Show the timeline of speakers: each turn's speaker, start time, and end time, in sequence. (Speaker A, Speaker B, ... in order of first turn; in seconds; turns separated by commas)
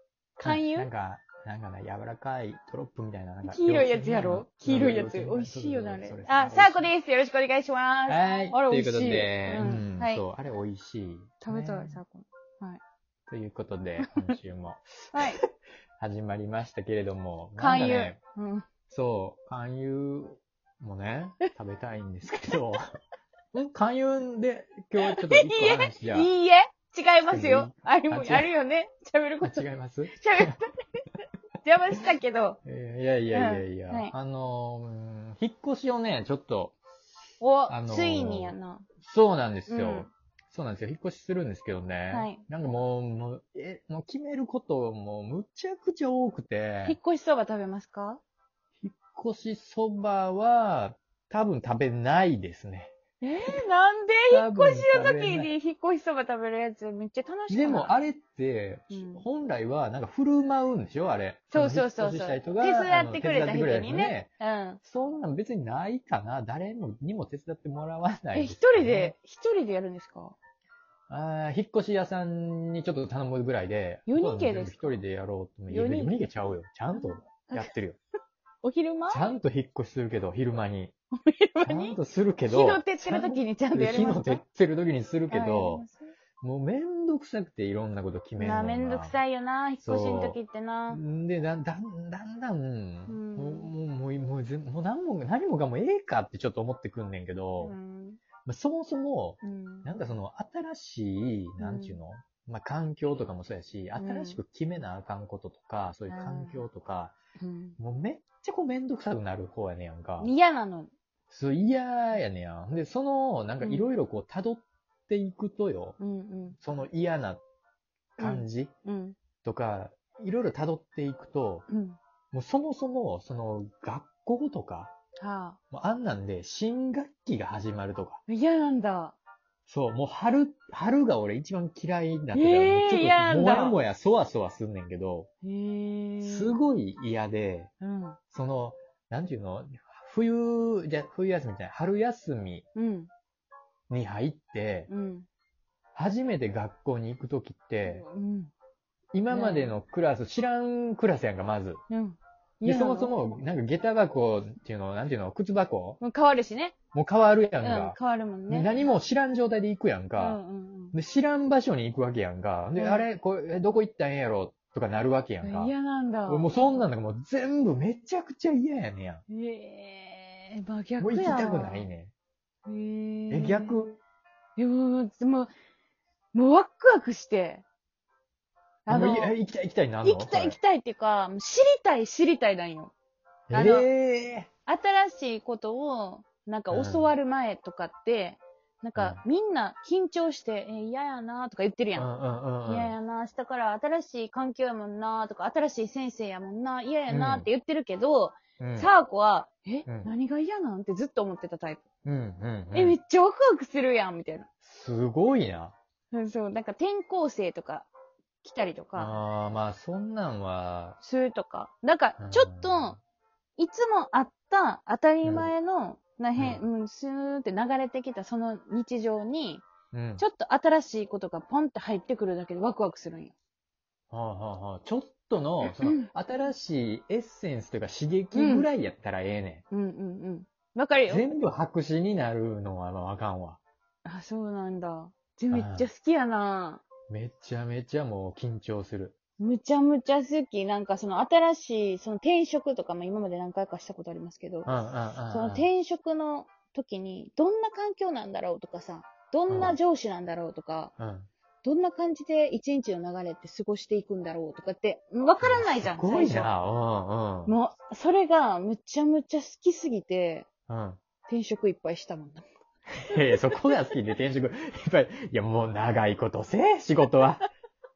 Speaker A: 0.4-0.9, Speaker B: 0.4-6.9, Speaker A: 3.4-10.2, Speaker B: 8.1-12.0, Speaker A: 11.4-12.8, Speaker B: 13.3-15.4, Speaker A: 14.0-14.3, Speaker A: 15.1-15.4, Speaker B: 16.0-18.2, Speaker A: 17.6-18.6, Speaker B: 18.9-22.8, Speaker B: 23.5-26.3, Speaker A: 25.0-31.0, Speaker B: 27.3-28.5, Speaker B: 29.4-30.6, Speaker A: 31.6-32.6, Speaker B: 32.6-36.8, Speaker A: 33.3-34.1, Speaker A: 37.4-38.9, Speaker B: 37.7-47.0, Speaker A: 39.7-40.1, Speaker A: 42.1-42.4, Speaker A: 46.8-48.2, Speaker B: 48.8-52.9, Speaker A: 53.2-57.9, Speaker B: 54.3-55.5, Speaker B: 57.5-64.3, Speaker A: 58.9-59.2, Speaker A: 61.5-64.8, Speaker B: 64.8-69.1, Speaker A: 68.3-70.3, Speaker B: 71.1-78.0, Speaker A: 74.1-74.9, Speaker A: 75.7-76.2, Speaker A: 76.9-77.7, Speaker A: 78.6-79.2, Speaker B: 79.1-80.9, Speaker A: 81.1-82.0, Speaker B: 81.6-85.8, Speaker A: 82.5-84.4, Speaker A: 85.3-86.1, Speaker B: 86.4-89.2, Speaker A: 88.4-91.0, Speaker B: 89.8-90.4, Speaker B: 90.9-97.8, Speaker A: 93.1-93.7, Speaker A: 97.6-98.2, Speaker B: 98.4-107.1, Speaker A: 99.4-99.9, Speaker A: 101.6-102.0, Speaker A: 104.0-104.4, Speaker A: 106.1-106.6, Speaker A: 107.4-107.8, Speaker B: 107.8-110.3, Speaker A: 110.2-110.9, Speaker B: 111.3-116.0, Speaker A: 113.6-113.8, Speaker A: 116.0-116.5, Speaker B: 116.6-117.4, Speaker B: 118.2-118.7, Speaker A: 118.2-119.2, Speaker B: 119.4-121.7, Speaker A: 121.7-122.0, Speaker B: 122.3-124.9, Speaker A: 125.2-125.6, Speaker B: 125.7-128.2, Speaker A: 128.3-129.2, Speaker B: 129.7-135.3, Speaker A: 132.3-133.8, Speaker A: 135.4-136.6, Speaker B: 136.2-137.7, Speaker A: 137.8-138.2, Speaker B: 138.3-142.6, Speaker A: 142.7-143.1, Speaker B: 143.9-144.9, Speaker A: 144.9-145.3, Speaker B: 145.9-148.0, Speaker A: 147.8-148.5, Speaker B: 149.1-151.8, Speaker A: 149.3-149.8, Speaker A: 151.9-153.1, Speaker B: 152.6-156.0, Speaker A: 156.0-156.8, Speaker B: 156.9-158.0, Speaker A: 157.6-158.7, Speaker B: 158.5-160.4, Speaker A: 160.2-160.9, Speaker B: 160.9-165.7, Speaker A: 162.8-163.1, Speaker A: 165.4-166.8, Speaker B: 166.3-169.2, Speaker A: 169.3-171.9, Speaker B: 171.0-172.1, Speaker A: 172.7-173.8, Speaker B: 173.3-174.0, Speaker A: 174.6-175.5, Speaker A: 176.3-177.6, Speaker A: 178.9-179.3, Speaker B: 178.9-180.6, Speaker A: 180.0-182.9, Speaker B: 183.5-184.5, Speaker A: 183.5-183.9, Speaker A: 184.7-192.1, Speaker B: 186.7-187.1, Speaker B: 188.9-189.2, Speaker B: 191.9-192.9, Speaker A: 192.6-201.8, Speaker B: 197.1-197.5, Speaker B: 198.6-198.9, Speaker B: 202.0-203.0, Speaker A: 202.7-204.5, Speaker B: 204.6-205.7, Speaker A: 206.1-207.9, Speaker A: 208.4-209.1, Speaker B: 208.9-211.0, Speaker A: 211.0-212.9, Speaker B: 212.2-213.0, Speaker A: 213.6-219.7, Speaker B: 215.2-215.5, Speaker B: 216.4-216.6, Speaker B: 219.9-220.2, Speaker A: 220.2-223.3, Speaker B: 224.1-229.6, Speaker A: 225.6-226.1, Speaker A: 228.3-228.7, Speaker A: 229.7-231.2, Speaker B: 231.1-233.6, Speaker A: 234.0-236.9, Speaker B: 235.5-235.9, Speaker B: 237.1-239.1, Speaker A: 239.4-244.7, Speaker B: 244.7-245.7, Speaker A: 245.3-250.9, Speaker B: 249.5-249.8, Speaker B: 251.0-251.3, Speaker A: 251.6-256.5, Speaker B: 255.4-257.6, Speaker A: 257.5-260.5, Speaker B: 260.7-261.0, Speaker A: 261.3-262.4, Speaker B: 263.1-267.4